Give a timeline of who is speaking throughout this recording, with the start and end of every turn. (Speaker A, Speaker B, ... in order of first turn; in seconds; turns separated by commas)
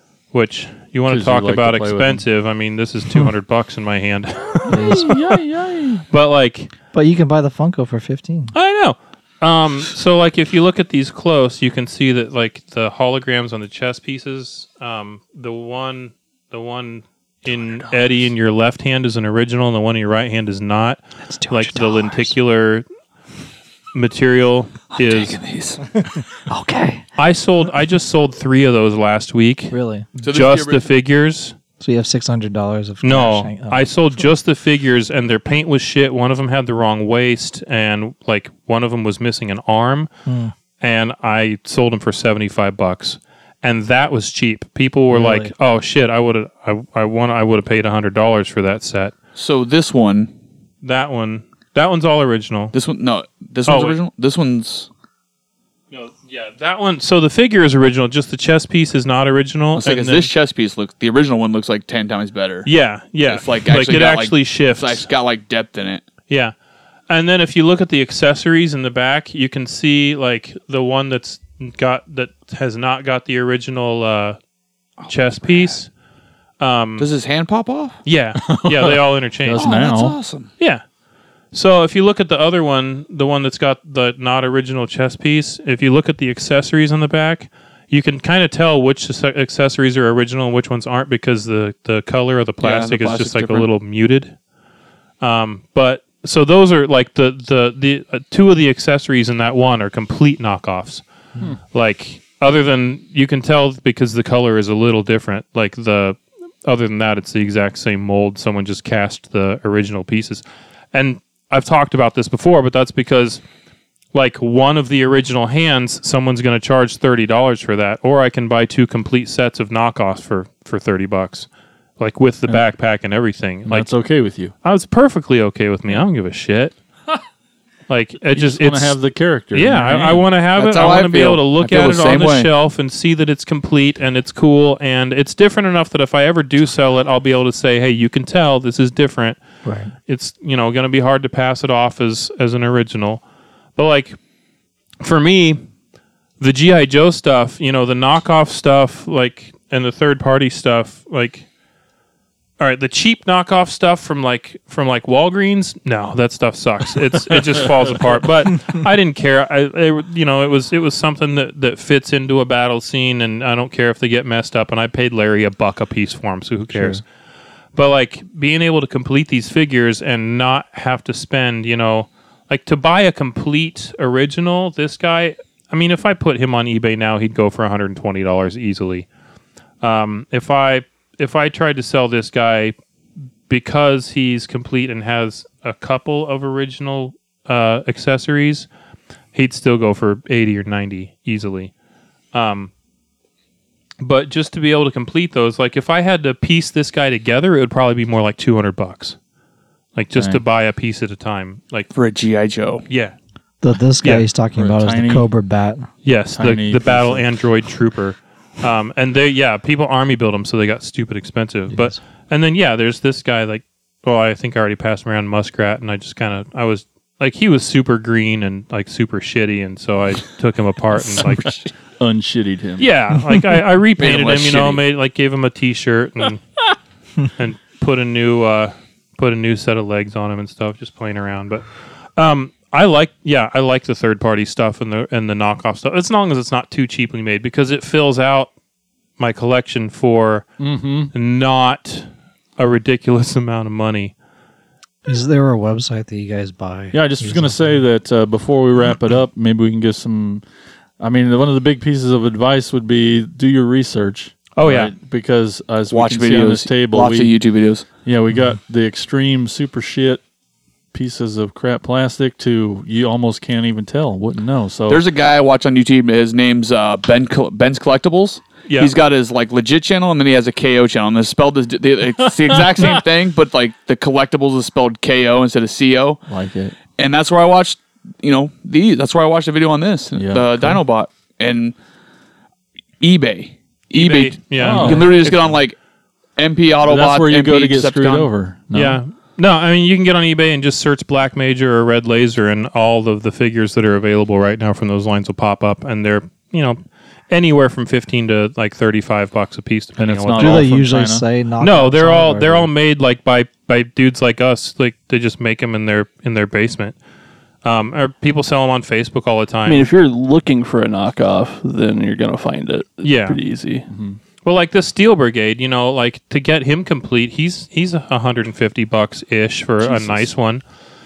Speaker A: 0.3-5.3, Speaker B: 1.1-2.2, Speaker B: 4.7-6.0, Speaker C: 4.7-5.1, Speaker A: 6.1-6.7, Speaker C: 6.9-8.5, Speaker A: 8.5-22.9, Speaker C: 21.2-22.4, Speaker A: 23.9-25.4, Speaker D: 24.9-26.0, Speaker C: 26.5-27.1, Speaker A: 27.2-31.6, Speaker C: 29.7-30.1, Speaker D: 30.2-30.9, Speaker C: 31.8-33.9, Speaker A: 33.0-40.1, Speaker C: 40.3-40.5, Speaker A: 40.8-49.1, Speaker C: 45.1-45.5, Speaker D: 49.4-50.3, Speaker A: 50.8-52.8, Speaker D: 52.7-54.9, Speaker A: 53.7-54.0, Speaker A: 55.9-60.3, Speaker D: 59.8-62.7, Speaker A: 62.6-65.1, Speaker D: 63.3-66.1, Speaker A: 67.1-74.4, Speaker D: 75.0-75.8, Speaker A: 75.1-75.9, Speaker A: 76.6-77.1, Speaker D: 77.0-78.0, Speaker A: 78.0-79.8, Speaker B: 78.4-80.2, Speaker D: 79.6-80.5, Speaker A: 80.6-80.8, Speaker A: 81.5-94.4, Speaker D: 92.6-93.7, Speaker A: 95.2-101.0, Speaker A: 101.7-113.4, Speaker A: 114.1-121.5, Speaker A: 122.0-123.9, Speaker B: 123.7-124.5, Speaker A: 124.6-126.8, Speaker A: 127.9-129.0, Speaker B: 128.3-130.3, Speaker A: 129.5-139.4, Speaker D: 130.6-132.5, Speaker C: 139.6-139.9, Speaker A: 140.1-143.2, Speaker A: 143.8-144.2, Speaker A: 145.0-145.6, Speaker A: 146.4-151.5, Speaker A: 152.6-167.0, Speaker B: 157.5-158.2, Speaker C: 166.7-167.0, Speaker A: 167.8-179.1, Speaker A: 179.8-182.8, Speaker A: 183.5-188.7, Speaker A: 189.3-191.7, Speaker A: 192.3-192.7, Speaker A: 194.0-199.2, Speaker A: 200.0-201.9, Speaker B: 200.2-200.4, Speaker D: 201.9-202.8, Speaker A: 202.9-203.2, Speaker C: 203.6-205.9, Speaker B: 204.6-205.3, Speaker A: 206.1-221.6, Speaker B: 206.3-207.2, Speaker C: 211.7-212.0, Speaker B: 222.0-223.6, Speaker A: 222.8-226.4, Speaker D: 224.0-224.8, Speaker A: 227.3-238.5, Speaker A: 239.2-240.5, Speaker B: 240.6-241.1, Speaker A: 241.1-244.1, Speaker C: 245.1-247.7, Speaker B: 246.9-250.4, Speaker B: 251.0-257.3, Speaker A: 254.6-254.9, Speaker D: 255.9-257.9, Speaker B: 258.1-260.2, Speaker B: 260.9-265.0, Speaker D: 264.9-276.2, Speaker A: 268.7-268.9, Speaker B: 272.3-273.0, Speaker B: 276.3-276.8, Speaker D: 277.0-281.8, Speaker B: 280.1-280.8, Speaker D: 283.0-285.8, Speaker A: 283.9-285.5, Speaker B: 284.6-285.2, Speaker D: 286.4-288.3, Speaker B: 286.8-289.0, Speaker A: 288.7-300.7, Speaker B: 300.0-301.2, Speaker C: 300.4-302.7, Speaker A: 301.6-307.0, Speaker A: 307.6-309.9, Speaker E: 309.7-313.9, Speaker A: 313.0-313.4, Speaker B: 313.9-314.2, Speaker A: 314.4-320.6, Speaker B: 319.8-320.3